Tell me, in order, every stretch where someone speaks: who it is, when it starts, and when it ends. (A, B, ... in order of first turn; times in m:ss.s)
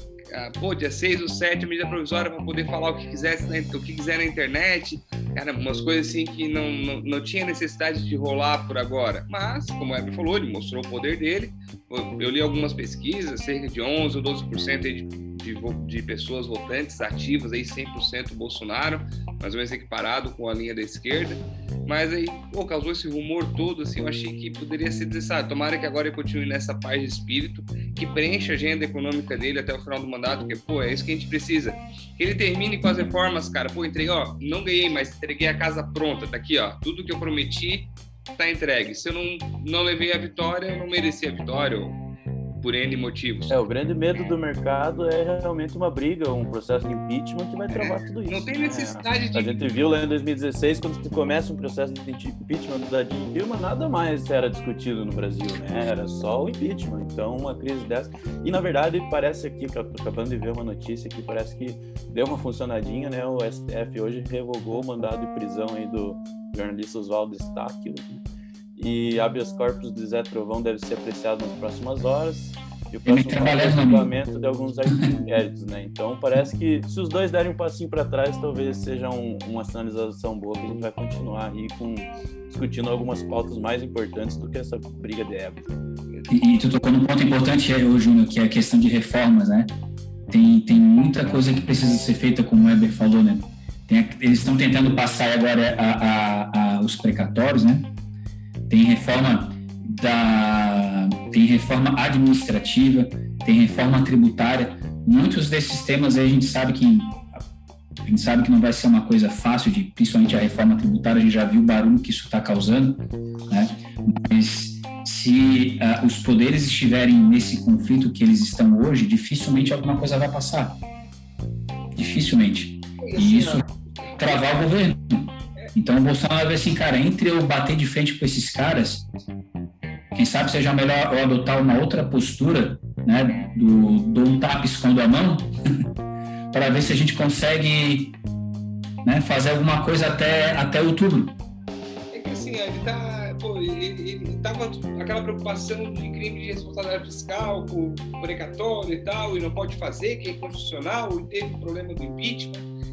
0:00.3-0:42.0 A
0:42.6-0:43.6 A
0:43.5-1:08.2 B
0:47.7-0:49.7 A
1:08.8-1:25.7 B
1:13.1-1:14.1 C
1:26.3-1:29.7 C
1:30.3-1:37.9 C
1:38.7-1:47.2 C
1:48.0-2:00.8 C
2:02.0-2:03.6 C
2:03.0-2:04.5 A
2:04.2-2:09.1 C
2:10.1-2:15.5 C
2:16.5-2:18.2 C
2:19.0-2:21.4 C
2:22.1-2:32.6 A